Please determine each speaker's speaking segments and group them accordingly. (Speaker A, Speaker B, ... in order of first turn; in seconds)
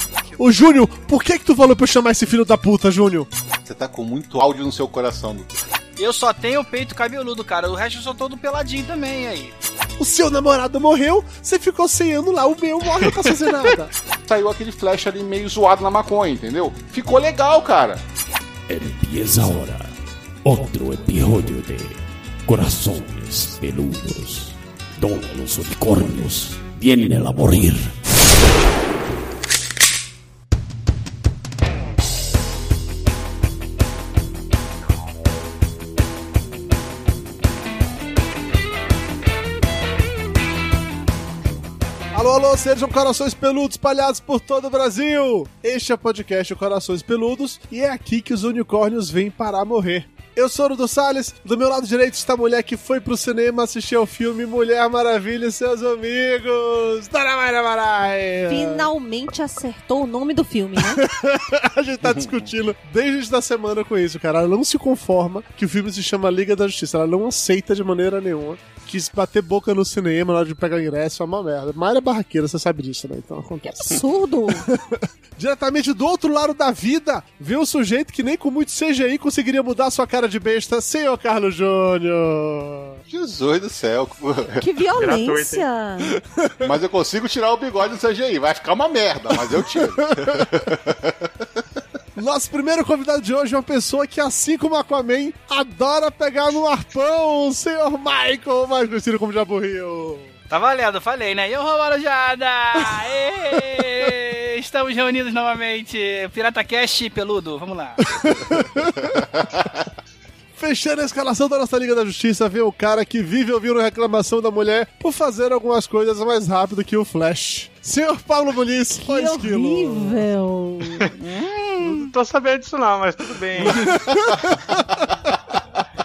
Speaker A: 0.4-3.3, 10.0-13.9, 42.1-58.9, 60.8-83.0, 86.0-86.7, 89.3-90.8, 92.2-100.3, 102.8-103.8, 108.0-109.3, 110.6-120.3, 123.6-125.0
Speaker B: 3.6-5.5, 14.3-18.0, 62.1-62.4, 83.1-84.6, 86.6-91.3, 109.1-109.7
Speaker C: 6.0-9.5, 100.5-108.1
Speaker D: 18.7-19.9, 20.4-28.0
Speaker E: 58.5-61.0, 73.7-74.7, 84.6-86.2, 119.0-121.2
Speaker F: 85.0-85.7, 121.8-124.5